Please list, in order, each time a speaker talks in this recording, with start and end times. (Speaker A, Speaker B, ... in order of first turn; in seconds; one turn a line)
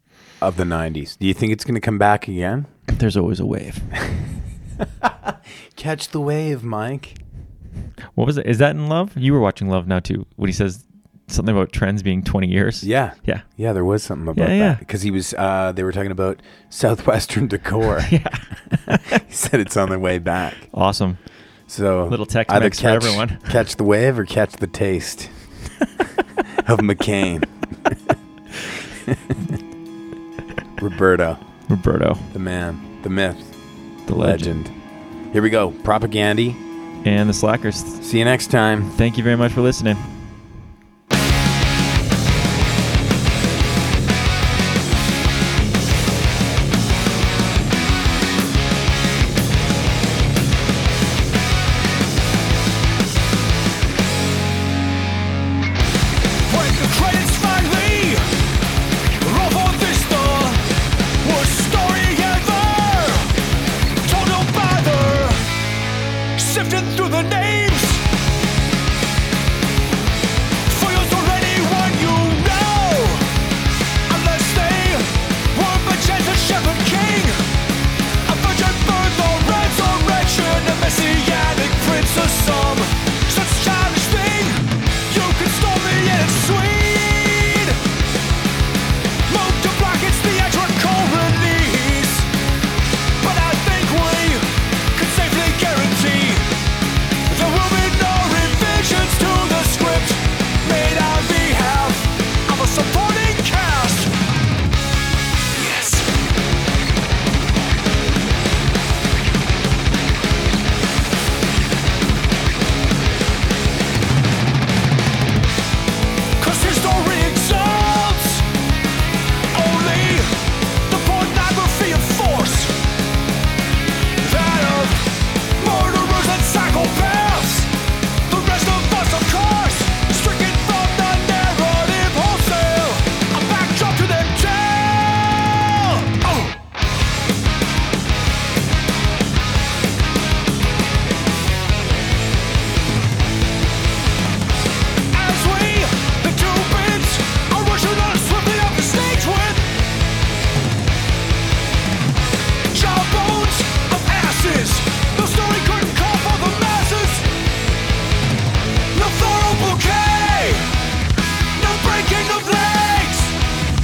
Speaker A: 0.4-2.7
Speaker B: 2.9-3.9
Speaker A: 5.7-7.2
Speaker B: 8.1-13.4
Speaker A: 12.8-18.1
Speaker B: 14.3-14.8
Speaker B: 18.0-19.2
Speaker A: 19.1-20.6
Speaker B: 20.7-21.2
Speaker A: 21.7-25.3
Speaker B: 22.1-23.5
Speaker A: 26.5-27.5
Speaker A: 30.8-31.4
Speaker B: 31.7-32.3
Speaker A: 32.3-33.5
Speaker B: 34.1-34.5
Speaker A: 34.1-34.7
Speaker A: 35.3-36.6
Speaker B: 37.0-38.0
Speaker A: 38.0-38.9
Speaker B: 38.9-40.4
Speaker C: 56.5-58.2
Speaker C: 59.2-60.6
Speaker C: 61.2-63.3
Speaker C: 64.0-65.4
Speaker C: 66.3-68.0
Speaker C: 70.7-73.3
Speaker C: 74.1-77.4
Speaker C: 78.3-87.8
Speaker C: 89.3-92.3
Speaker C: 93.2-96.5
Speaker C: 97.3-104.1
Speaker C: 105.5-106.1
Speaker C: 116.4-118.4
Speaker C: 119.5-120.3
Speaker C: 120.9-122.7
Speaker C: 124.2-125.0
Speaker C: 125.6-127.7
Speaker C: 128.3-136.6
Speaker C: 145.1-149.6
Speaker C: 152.7-157.3
Speaker C: 158.9-160.6
Speaker C: 161.5-163.4